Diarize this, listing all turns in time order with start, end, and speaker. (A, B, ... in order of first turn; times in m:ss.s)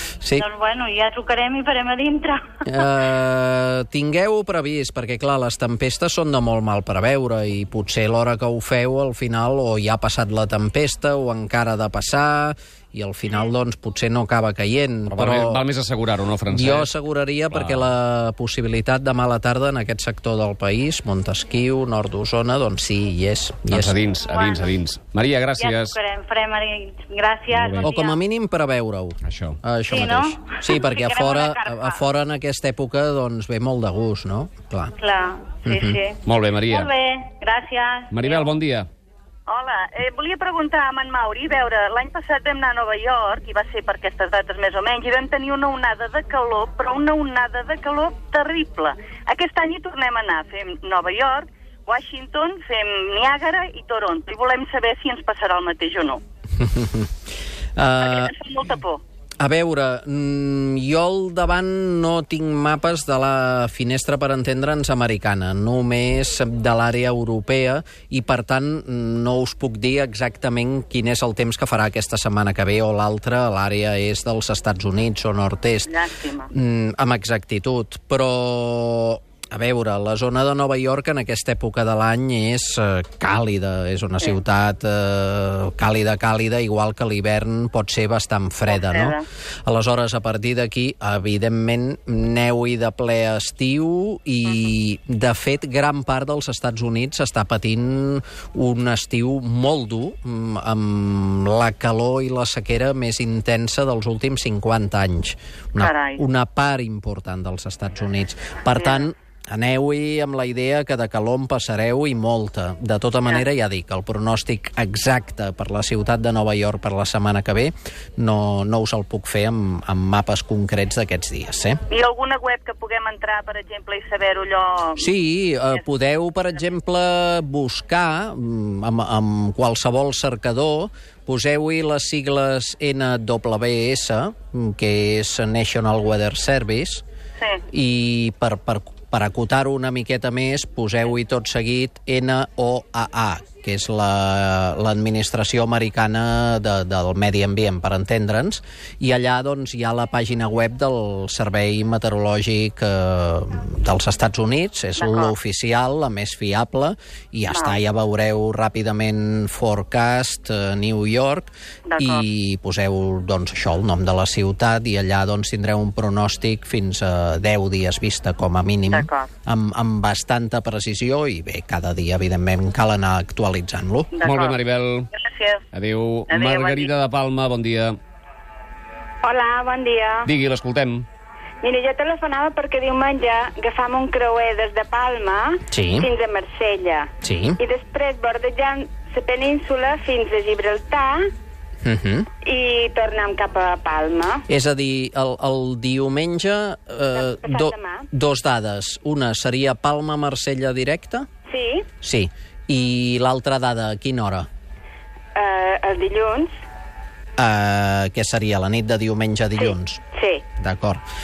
0:00.4-0:02.4 A
0:02.6-0:15.6 B
0:15.1-0:16.9 C
0:16.5-0:24.0 B
0:17.5-0:17.9 C
0:23.7-0:26.0 C
0:24.3-0:24.7 A
0:25.6-0:28.2 A
0:27.5-0:27.9 C
0:27.8-0:34.9 B
0:29.2-0:29.6 C
0:29.9-0:32.0 A
0:35.0-0:38.2 A
0:35.6-0:36.0 B
0:36.2-0:36.9 C
0:38.1-0:38.9 C
0:38.2-0:38.5 D
0:39.5-0:56.2 D
0:56.6-0:57.1 B
0:57.8-0:58.4 B
0:58.0-0:59.0 D
0:59.4-1:16.0 B
1:15.9-1:16.4 D
1:16.5-2:01.8 B
1:28.7-1:29.2 D
1:45.8-1:46.2 D
2:01.9-2:04.9 D
2:05.0-2:17.0 B
2:17.7-2:54.1 B
2:35.0-2:35.3 D
2:41.9-2:42.2 D
2:48.9-2:49.3 D
2:54.2-2:54.6 D
2:54.2-2:55.1 C
2:55.1-2:55.6 D
2:55.7-2:58.0 C
2:56.3-2:56.9 D
2:59.2-3:00.2 E
3:00.2-3:01.1 C
3:01.6-3:11.2 E
3:05.7-3:06.1 B
3:07.2-3:07.6 B
3:11.8-3:12.3 B
3:12.4-3:14.4 E
3:14.5-3:21.3 B
3:17.2-3:18.0 E
3:21.5-3:21.9 E
3:22.0-3:24.4 B
3:25.3-3:26.5 E
3:27.4-3:30.0 B
3:29.6-3:30.4 E
3:30.6-3:31.0 B